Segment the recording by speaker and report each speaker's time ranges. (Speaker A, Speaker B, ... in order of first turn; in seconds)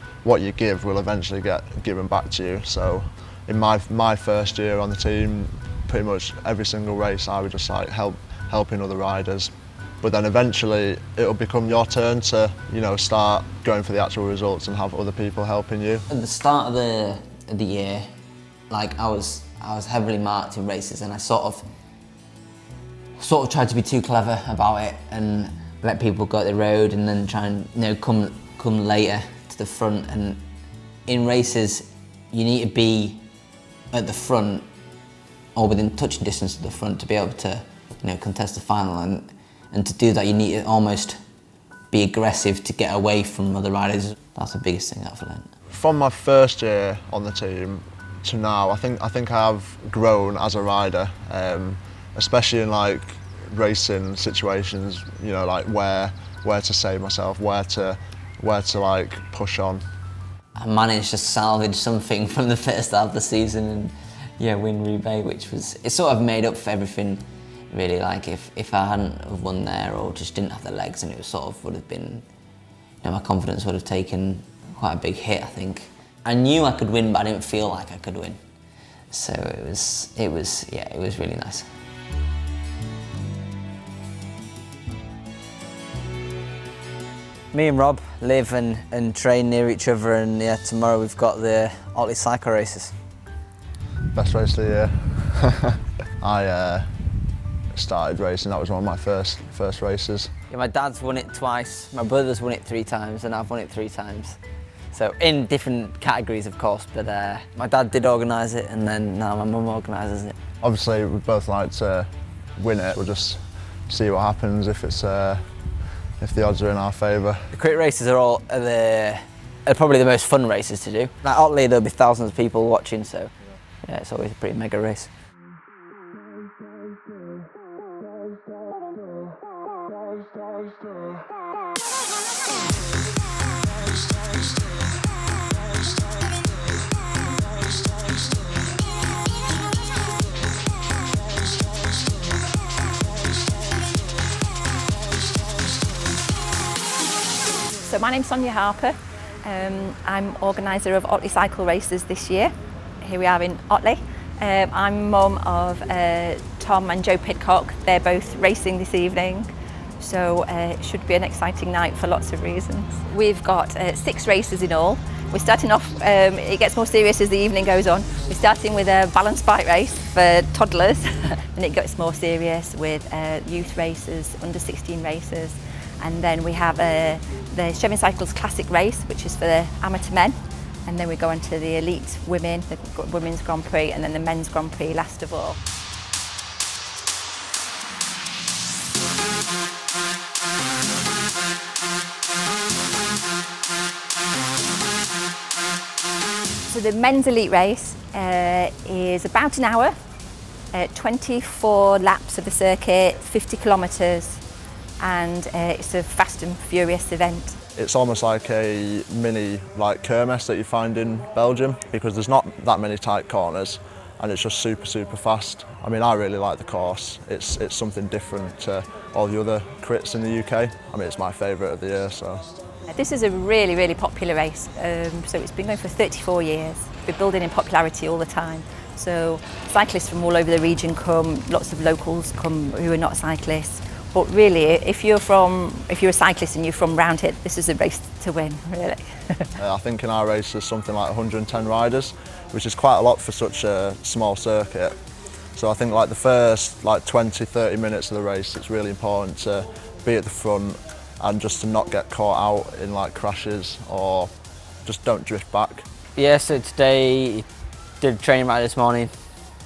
Speaker A: 0.2-16.1, 45.7-59.8, 94.1-96.9, 97.7-100.3, 110.6-115.4, 116.2-117.5, 207.8-222.6, 239.6-244.9, 245.6-254.3, 254.8-255.8
Speaker B: 16.1-18.1, 18.7-21.7, 23.2-30.4, 31.1-33.2, 33.9-34.7, 35.5-41.2, 41.9-45.5, 60.6-72.3, 73.0-78.4, 79.1-81.7, 87.5-93.0, 100.5-104.4, 104.9-110.4, 117.5-125.1, 256.2-257.5, 258.0-259.1
Speaker C: 147.8-185.6, 196.7-199.9, 200.7-204.4, 205.0-207.6, 222.9-239.6